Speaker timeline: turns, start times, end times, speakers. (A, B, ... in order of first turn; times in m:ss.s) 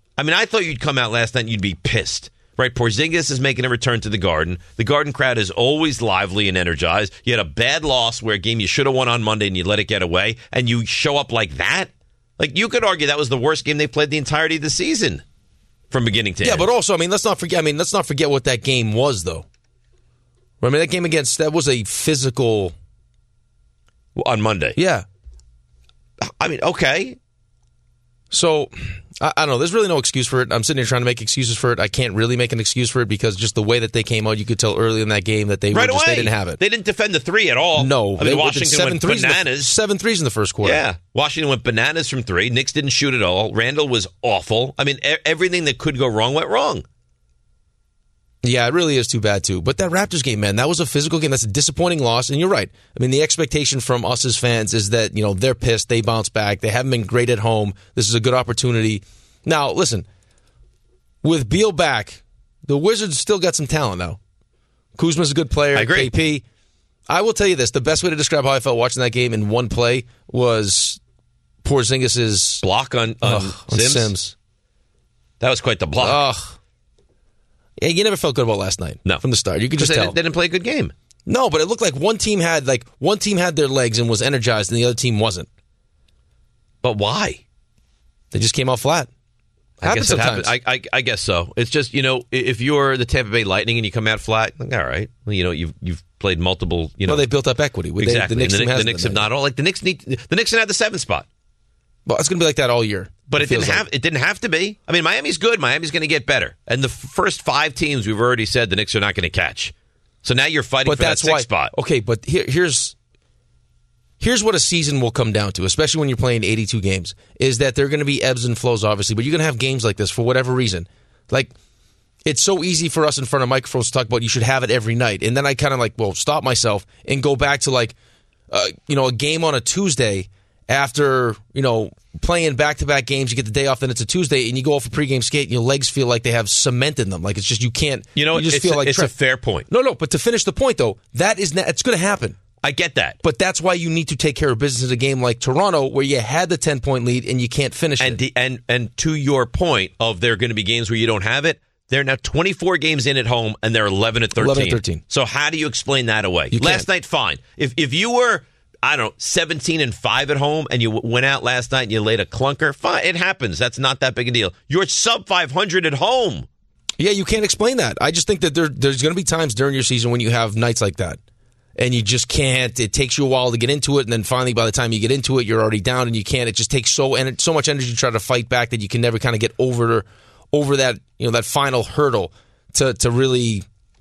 0:00.2-0:15.2 A
0:15.9-0:16.7 A
0:16.4-0:19.4 B
0:20.6-0:22.7 B
0:24.2-0:24.8 A
0:24.8-0:25.0 B
0:26.4-0:27.2 A
0:28.3-0:36.6 B
0:35.7-0:39.7 A
0:37.8-0:40.8 B
0:40.6-0:46.8 A
0:48.4-1:00.0 B
1:01.2-1:04.2 B
1:05.0-1:06.4 B
1:05.7-1:06.1 A
1:07.1-1:11.0 B
1:11.6-1:12.6 B
1:12.6-1:14.1 A
1:13.2-1:14.3 B
1:15.4-1:16.2 A
1:16.0-1:16.5 B
1:17.8-1:20.1 B
1:19.8-1:20.9 A
1:21.3-1:25.5 B
1:26.8-1:27.4 A
1:28.3-1:29.1 B
1:29.8-1:30.5 B
1:29.8-1:37.2 A
1:37.0-1:39.2 B
1:38.0-1:41.2 A
1:42.1-1:43.8 B
1:43.3-1:49.7 A
1:50.2-1:51.7 A
1:50.8-1:52.9 B
1:54.2-2:01.5 B
2:02.2-2:07.9 B
2:08.5-2:19.1 B
2:18.2-2:19.6 A
2:19.7-2:22.4 B
2:22.6-2:23.2 A
2:23.2-2:28.2 B
2:28.0-2:46.5 A
2:34.4-2:35.0 B
2:36.5-2:36.8 B
2:47.0-2:51.2 B
2:51.8-3:03.6 B